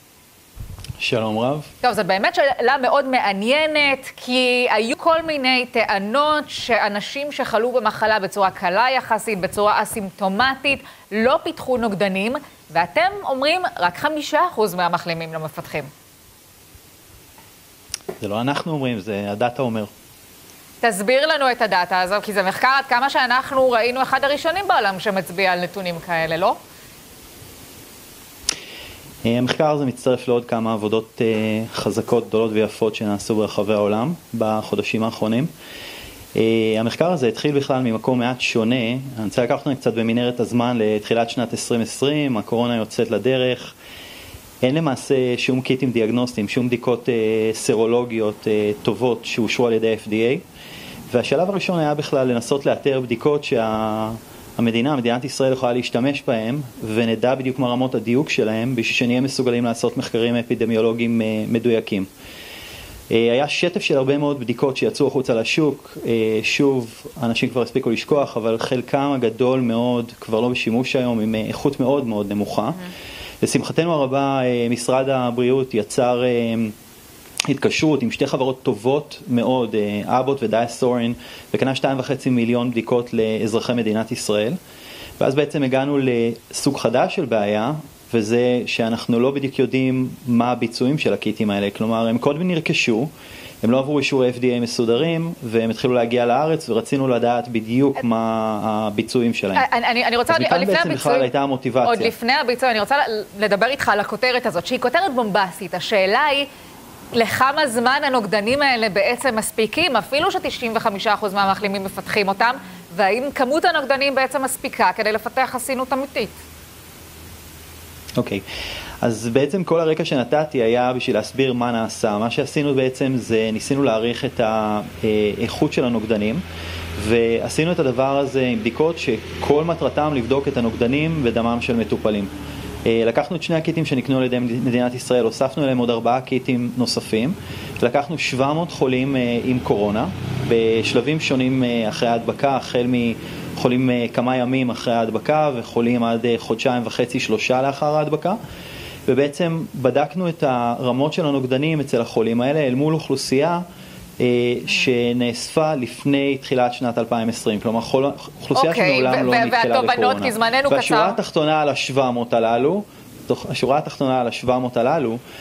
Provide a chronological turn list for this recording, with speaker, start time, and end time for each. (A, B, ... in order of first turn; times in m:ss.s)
0:01.0-0:01.7 A
0:01.8-0:15.9 B
0:18.2-0:19.9 A
0:20.8-0:26.6 B
0:29.2-0:35.5 A
0:36.3-0:43.8 A
0:44.6-0:50.4 A
0:51.1-1:02.1 A
1:03.1-1:12.9 A
1:13.4-1:16.7 A
1:17.5-1:24.6 A
1:25.2-1:33.1 A
1:33.6-1:39.7 A
1:39.6-1:41.3 B
1:40.3-1:42.1 A
1:41.8-1:46.5 B
1:47.1-1:56.4 B
1:58.2-1:58.4 A
1:59.0-2:06.4 A
2:07.0-2:12.3 A
2:12.8-2:28.4 A
2:29.1-2:33.6 A
2:34.2-2:45.2 A
2:38.5-2:41.2 B